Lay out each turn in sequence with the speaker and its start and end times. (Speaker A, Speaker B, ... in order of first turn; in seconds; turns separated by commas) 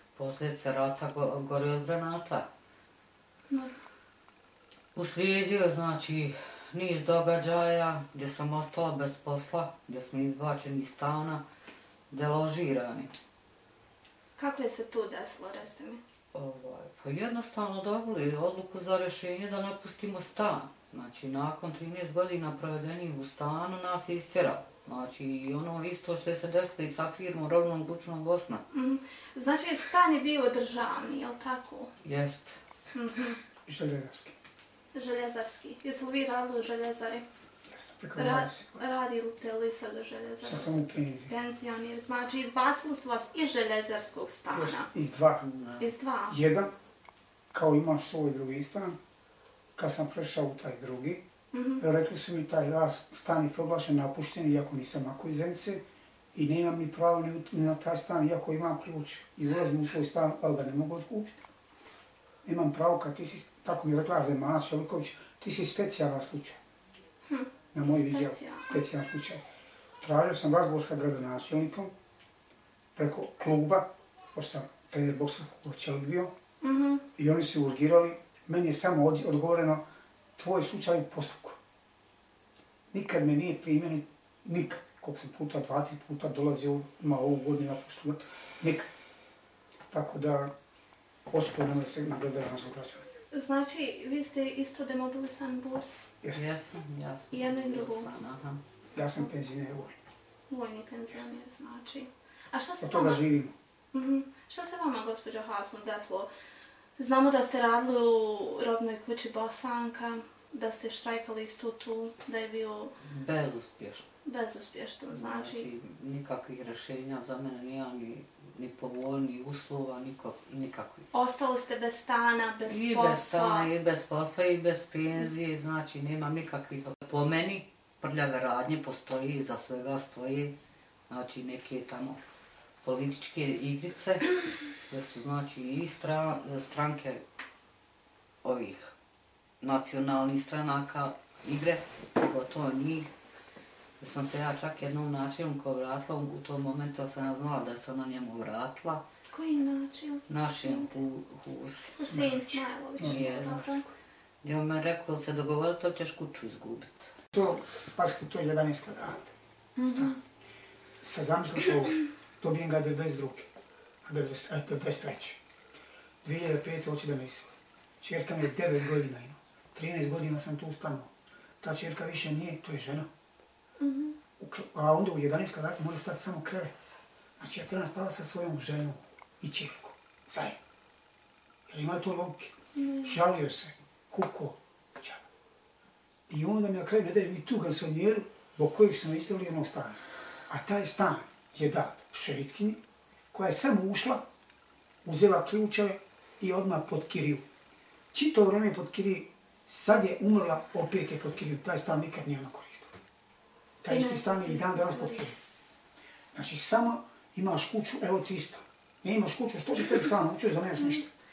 Speaker A: 0.2-2.5, Speaker A: 5.0-11.4, Speaker A: 12.1-13.1, Speaker B: 14.4-16.0, Speaker A: 16.3-28.6, Speaker B: 28.7-31.9, Speaker A: 32.0-32.6, Speaker B: 32.9-33.4, Speaker C: 33.7-34.4, Speaker B: 34.9-37.2, Speaker C: 37.7-38.8, Speaker B: 38.2-44.9, Speaker C: 40.4-41.3, Speaker C: 44.5-45.4, Speaker A: 45.4-45.9, Speaker B: 45.8-46.4, Speaker C: 46.3-46.7, Speaker C: 47.5-49.0, Speaker C: 49.8-51.2, Speaker B: 51.5-51.8, Speaker C: 51.8-55.8, Speaker C: 56.3-61.3, Speaker C: 62.4-66.6, Speaker B: 67.3-68.8, Speaker C: 67.7-69.4, Speaker C: 70.0-71.9, Speaker C: 73.0-76.3, Speaker B: 76.6-77.0, Speaker C: 77.2-79.8, Speaker C: 80.4-81.6, Speaker C: 82.9-88.9, Speaker C: 89.9-90.5, Speaker C: 91.3-93.1, Speaker B: 93.3-96.1, Speaker C: 96.2-96.5, Speaker A: 96.3-98.6, Speaker B: 97.3-98.2, Speaker C: 99.0-100.0, Speaker B: 99.0-99.3, Speaker B: 100.5-103.2, Speaker C: 102.8-103.5, Speaker B: 103.9-106.3, Speaker B: 107.0-113.0, Speaker A: 113.0-114.1, Speaker B: 114.2-115.7, Speaker A: 115.1-121.1, Speaker B: 121.1-123.7, Speaker A: 122.7-130.6, Speaker A: 131.1-132.2, Speaker A: 132.8-137.2, Speaker A: 138.4-138.9, Speaker A: 139.6-143.1, Speaker A: 144.0-149.1, Speaker B: 149.3-150.9, Speaker A: 150.3-152.0, Speaker B: 152.0-153.8, Speaker C: 152.0-153.9, Speaker A: 153.0-153.8, Speaker A: 154.4-157.1, Speaker C: 157.3-159.3, Speaker B: 159.8-160.2, Speaker C: 159.8-160.2, Speaker C: 161.0-163.5, Speaker C: 164.1-165.4, Speaker C: 166.2-167.5, Speaker C: 168.0-173.1, Speaker B: 173.8-174.2, Speaker C: 174.4-176.7, Speaker C: 177.4-180.6, Speaker C: 181.7-185.2, Speaker B: 182.8-183.2, Speaker C: 186.3-192.8, Speaker C: 193.3-194.2, Speaker C: 195.1-197.4, Speaker C: 198.1-202.9, Speaker C: 203.8-205.4, Speaker B: 203.9-205.3, Speaker C: 206.3-211.1